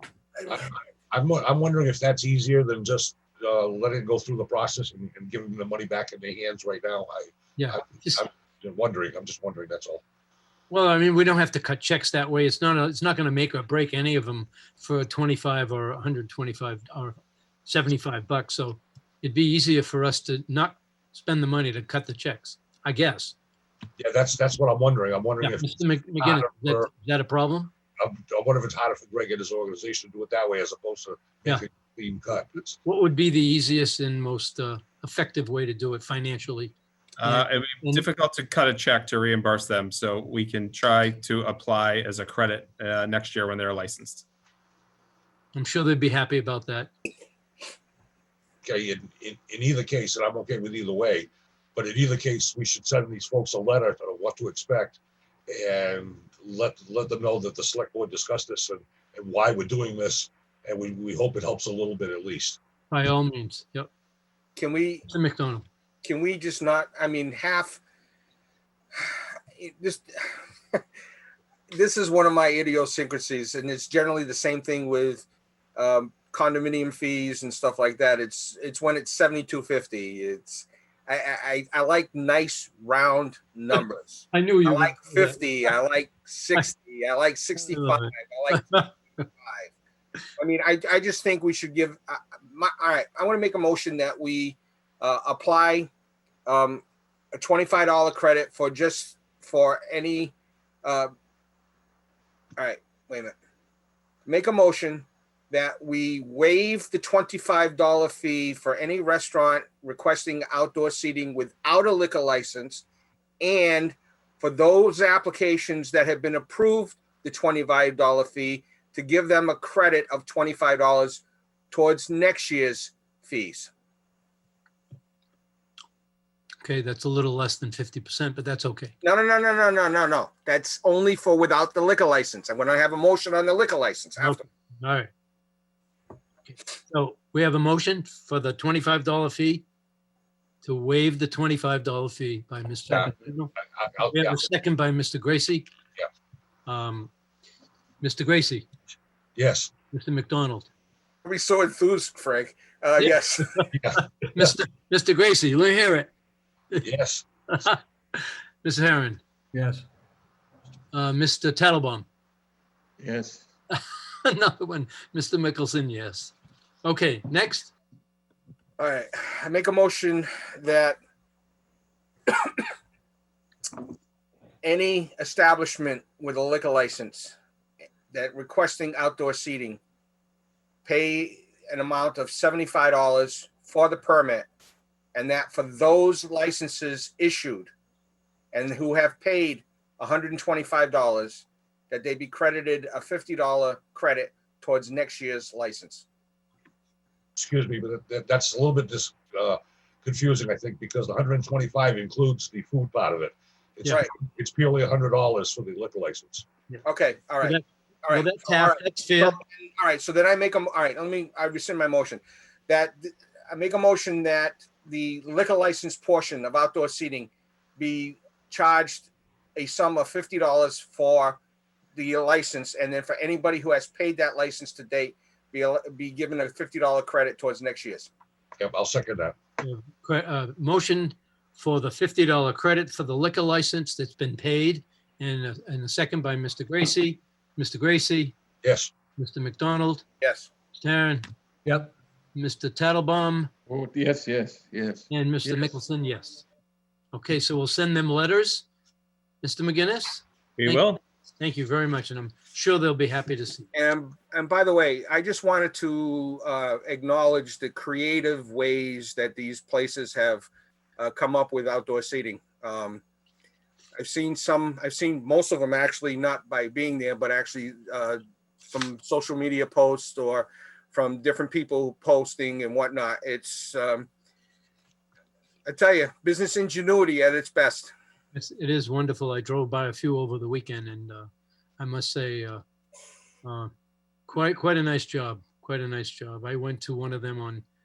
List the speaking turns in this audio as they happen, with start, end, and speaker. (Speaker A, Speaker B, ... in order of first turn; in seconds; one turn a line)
Speaker A: 0.5-10.0
Speaker B: 7.6-8.2
Speaker B: 10.7-23.4
Speaker A: 24.0-26.9
Speaker B: 25.4-27.7
Speaker A: 28.0-32.8
Speaker B: 32.8-38.0
Speaker C: 37.2-44.2
Speaker B: 45.5-46.9
Speaker A: 48.6-62.6
Speaker B: 62.9-63.9
Speaker D: 64.6-65.1
Speaker B: 65.1-65.7
Speaker D: 66.0-67.8
Speaker D: 69.0-70.8
Speaker D: 71.7-89.7
Speaker B: 84.3-85.5
Speaker B: 87.6-89.2
Speaker D: 90.4-95.9
Speaker D: 96.5-96.8
Speaker D: 97.3-100.3
Speaker D: 100.8-101.1
Speaker D: 102.6-103.3
Speaker D: 104.3-112.8
Speaker D: 113.4-123.7
Speaker B: 126.6-128.9
Speaker D: 129.0-134.4
Speaker B: 134.2-135.1
Speaker B: 136.5-139.7
Speaker B: 140.6-143.5
Speaker A: 142.9-144.5
Speaker B: 144.1-145.7
Speaker B: 146.7-147.1
Speaker B: 148.0-148.7
Speaker A: 149.4-149.7
Speaker B: 149.9-150.7
Speaker D: 151.2-153.7
Speaker B: 153.0-153.7
Speaker A: 153.7-154.5
Speaker B: 154.2-156.1
Speaker A: 156.8-157.2
Speaker B: 157.5-159.2
Speaker B: 160.9-162.1
Speaker E: 163.0-163.4
Speaker B: 163.7-167.7
Speaker D: 168.8-171.0
Speaker D: 172.3-172.6
Speaker D: 174.6-177.4
Speaker D: 178.1-179.8
Speaker D: 180.8-184.5
Speaker D: 185.2-187.7
Speaker D: 188.5-196.1
Speaker A: 197.4-206.5
Speaker D: 206.8-221.4
Speaker B: 207.4-209.4
Speaker D: 222.0-228.1
Speaker A: 228.6-229.4
Speaker B: 229.6-238.3
Speaker A: 238.6-238.9
Speaker B: 239.2-240.0
Speaker D: 240.2-240.5
Speaker B: 240.7-241.3
Speaker B: 242.3-243.5
Speaker E: 243.7-245.1
Speaker B: 245.1-246.4
Speaker B: 247.1-248.7
Speaker B: 249.4-253.7
Speaker C: 250.6-251.0
Speaker D: 253.7-263.0
Speaker D: 264.0-274.1
Speaker D: 275.7-277.9
Speaker B: 278.3-282.6
Speaker B: 283.4-283.7
Speaker B: 284.3-287.6